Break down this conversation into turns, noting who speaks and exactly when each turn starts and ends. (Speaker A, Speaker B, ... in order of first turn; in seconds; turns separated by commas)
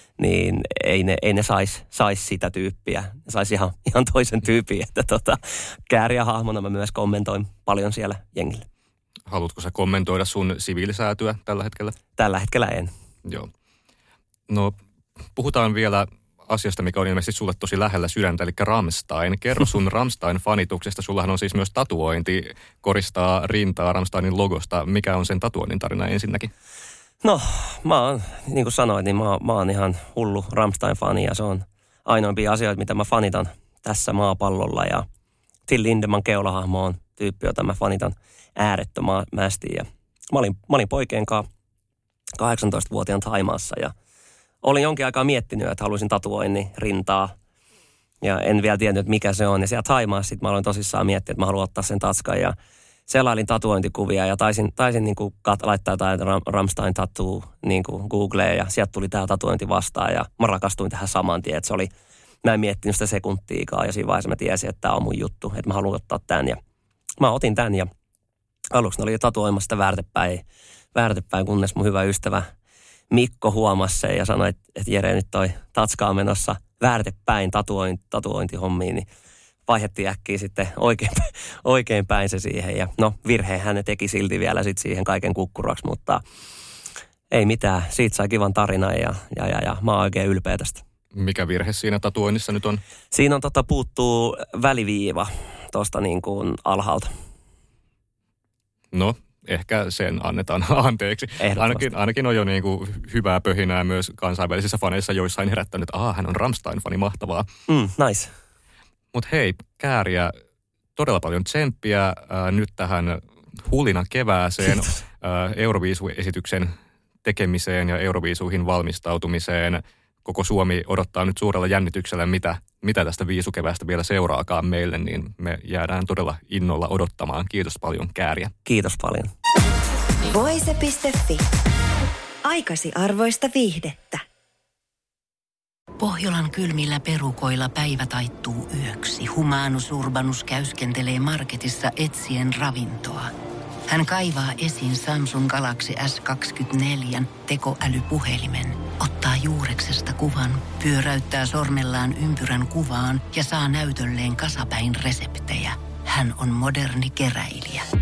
Speaker A: 0.2-8.7, Speaker B: 9.3-12.0, Speaker A: 12.2-12.9, Speaker B: 14.5-14.7, Speaker B: 15.3-26.5, Speaker A: 27.2-35.0, Speaker A: 35.7-41.5, Speaker A: 42.4-43.9, Speaker A: 44.6-47.3, Speaker A: 48.2-52.5, Speaker A: 53.1-61.9, Speaker A: 62.4-66.6, Speaker A: 67.2-67.9, Speaker A: 68.7-72.5, Speaker A: 73.1-79.1, Speaker A: 79.7-86.2, Speaker A: 87.3-90.8, Speaker B: 91.1-92.8, Speaker A: 93.1-97.1, Speaker B: 98.9-107.5, Speaker A: 101.4-101.9, Speaker A: 107.7-108.3, Speaker B: 109.1-110.3, Speaker B: 111.0-128.5, Speaker A: 128.6-129.3, Speaker C: 130.3-131.4, Speaker C: 132.4-134.2, Speaker D: 136.0-143.3, Speaker D: 143.9-157.9